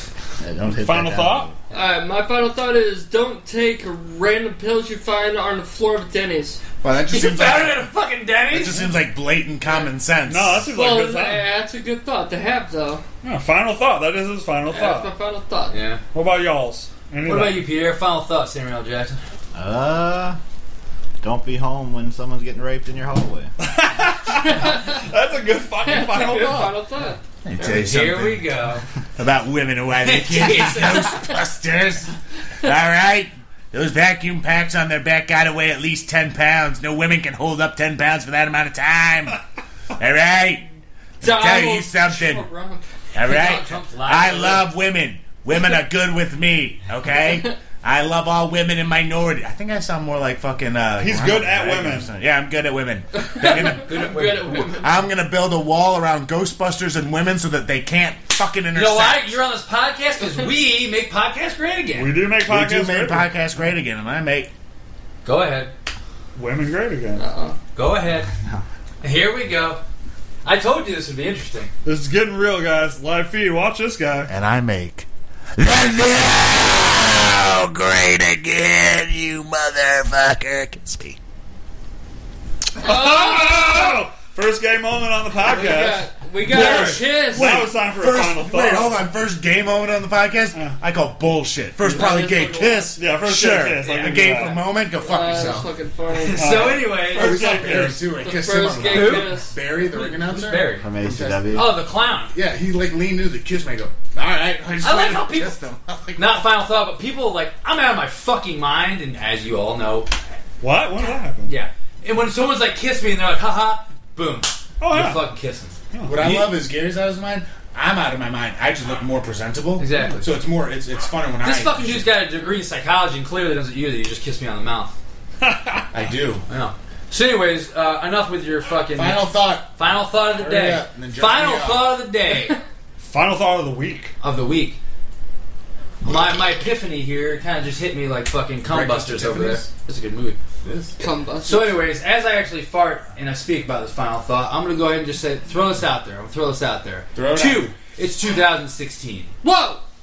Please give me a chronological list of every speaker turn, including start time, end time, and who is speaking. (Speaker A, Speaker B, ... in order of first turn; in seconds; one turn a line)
Speaker A: 0.4-1.6
Speaker B: 0.8-1.5
Speaker C: 1.7-6.6
Speaker D: 6.8-7.8
Speaker E: 7.1-8.9
Speaker D: 8.5-10.7
Speaker B: 10.3-11.5
Speaker C: 10.7-13.0
Speaker B: 13.2-15.1
Speaker C: 14.7-15.8
Speaker E: 15.7-16.0
Speaker B: 16.1-17.7
Speaker E: 17.2-19.2
Speaker A: 19.6-20.4
Speaker A: 21.2-23.5
Speaker B: 23.6-26.8
Speaker C: 24.3-25.0
Speaker C: 25.9-27.8
Speaker D: 27.4-28.5
Speaker E: 27.6-28.9
Speaker D: 29.2-39.4
Speaker E: 30.0-31.2
Speaker D: 39.9-40.7
Speaker D: 41.2-42.5
Speaker C: 41.2-42.9
Speaker D: 43.1-59.4
Speaker E: 43.2-44.7
Speaker B: 51.0-52.1
Speaker C: 53.2-55.0
Speaker E: 53.4-54.8
Speaker E: 58.7-62.1
Speaker B: 62.0-63.3
Speaker D: 62.5-64.5
Speaker E: 65.2-65.7
Speaker B: 66.4-67.2
Speaker C: 67.2-67.6
Speaker E: 67.8-68.3
Speaker E: 69.0-69.8
Speaker E: 70.4-71.7
Speaker B: 71.8-74.3
Speaker D: 74.3-81.2
Speaker C: 82.8-84.1
Speaker B: 82.8-89.0
Speaker C: 85.4-87.7
Speaker E: 86.5-87.0
Speaker D: 87.3-95.7
Speaker C: 91.9-93.0
Speaker B: 93.0-94.6
Speaker E: 93.8-94.5
Speaker C: 95.0-96.8
Speaker E: 96.1-97.7
Speaker B: 96.3-98.0
Speaker D: 97.1-101.7
Speaker C: 97.7-99.5
Speaker E: 98.8-100.9
Speaker A: 100.8-101.7
Speaker E: 101.5-102.3
Speaker D: 102.3-106.4
Speaker E: 104.8-105.6
Speaker E: 106.2-110.1
Speaker B: 110.6-111.5
Speaker E: 111.4-116.5
Speaker B: 114.8-115.2
Speaker B: 115.9-116.2
Speaker D: 116.0-122.1
Speaker E: 119.8-120.3
Speaker E: 121.4-125.0
Speaker B: 125.4-125.9
Speaker D: 125.9-126.5
Speaker E: 126.5-132.6
Speaker D: 128.9-132.0
Speaker B: 133.0-134.1
Speaker E: 134.2-134.8
Speaker E: 136.0-140.4
Speaker D: 138.7-139.7
Speaker D: 140.6-140.9
Speaker C: 141.0-141.8
Speaker E: 141.4-149.3
Speaker D: 147.1-147.7
Speaker C: 149.4-149.8